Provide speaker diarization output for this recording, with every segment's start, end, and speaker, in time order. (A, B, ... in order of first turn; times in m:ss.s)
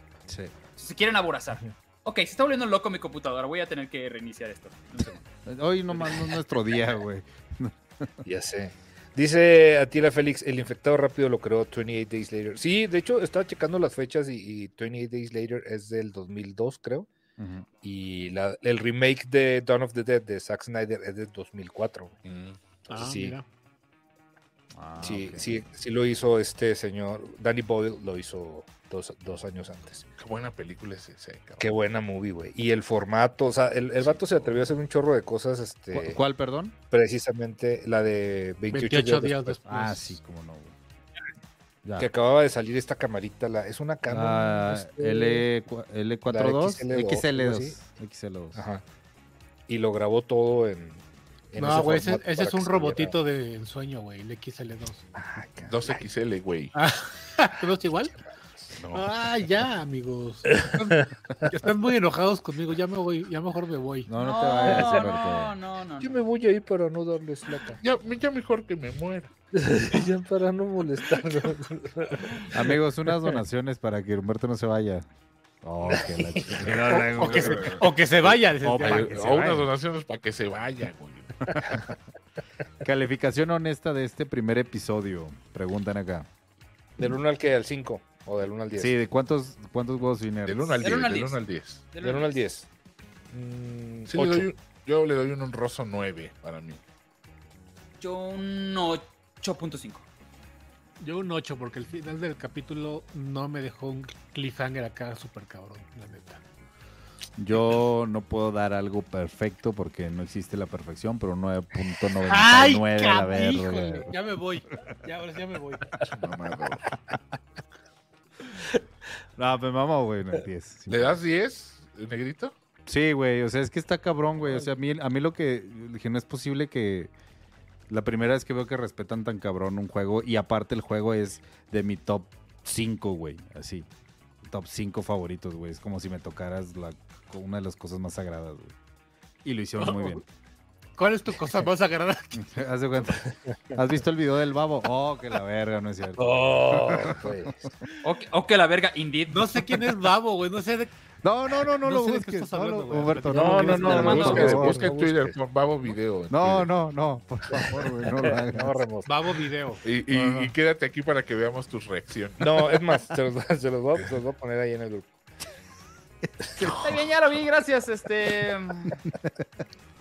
0:00.3-0:00.6 A
0:00.8-0:05.2 B
0:05.4-0:08.1 A
0:08.2-0:17.1 C
0:17.4-0:17.7 A
0:17.8-0:22.2 C
0:22.2-0:22.6 D
0:22.9-0:23.4 C
0:22.9-0:23.4 E
0:24.7-0:25.6 A
0:25.0-0:30.0 C
0:30.2-0:31.7 D
0:31.6-0:36.2 C
0:34.0-0:34.5 D
0:35.9-0:36.8 A
0:36.9-0:39.6 C
0:38.7-0:40.0 E
0:39.7-0:40.8 A
0:41.8-0:42.1 A
0:42.0-0:45.4 C
0:44.1-0:48.6 A
0:46.3-0:47.8 C
0:48.6-0:48.8 C
0:49.7-0:53.2 C
0:51.6-0:55.1 E
0:55.2-0:56.0 C
0:55.7-0:56.7 D
0:56.8-0:58.1 E
0:58.8-0:59.1 D
0:58.9-1:04.1 E
1:00.5-1:01.0 C
1:04.1-1:05.5 A
1:04.2-1:06.2 B
1:04.7-1:05.1 C
1:06.0-1:07.8 C
1:07.8-1:09.3 D
1:09.6-1:13.4 C
1:12.5-1:15.1 A
1:15.6-1:19.7 A
1:15.9-1:17.6 C
1:16.9-1:17.8 D
1:17.2-1:19.3 E
1:18.8-1:21.4 D
1:21.5-1:21.8 A
1:22.8-1:26.3 A
1:27.0-1:28.9 C
1:28.8-1:30.9 A
1:30.5-1:31.8 D
1:30.8-1:32.4 B
1:32.0-1:32.7 C
1:33.3-1:34.5 C
1:34.1-1:36.8 D
1:38.0-1:40.1 B
1:41.0-1:46.4 E
1:47.4-1:54.1 A
1:52.3-1:56.0 E
1:56.1-1:56.9 D
1:59.4-2:01.2 A
2:00.9-2:02.5 D
2:02.9-2:07.1 A
2:07.9-2:13.9 A
2:14.4-2:18.7 A
2:19.4-2:20.2 A
2:19.8-2:20.2 E
2:21.0-2:22.4 E
2:22.4-2:27.3 A
2:26.2-2:27.7 C
2:28.0-2:29.5 B
2:29.3-2:30.9 E
2:31.2-2:34.9 A
2:31.7-2:34.4 E
2:33.3-2:35.4 C
2:33.9-2:36.7 D
2:36.3-2:38.8 A
2:37.6-2:39.1 C
2:39.1-2:39.8 E
2:39.8-2:42.7 D
2:40.2-2:40.5 A
2:42.4-2:45.1 C
2:46.6-2:47.0 A
2:46.7-2:49.0 B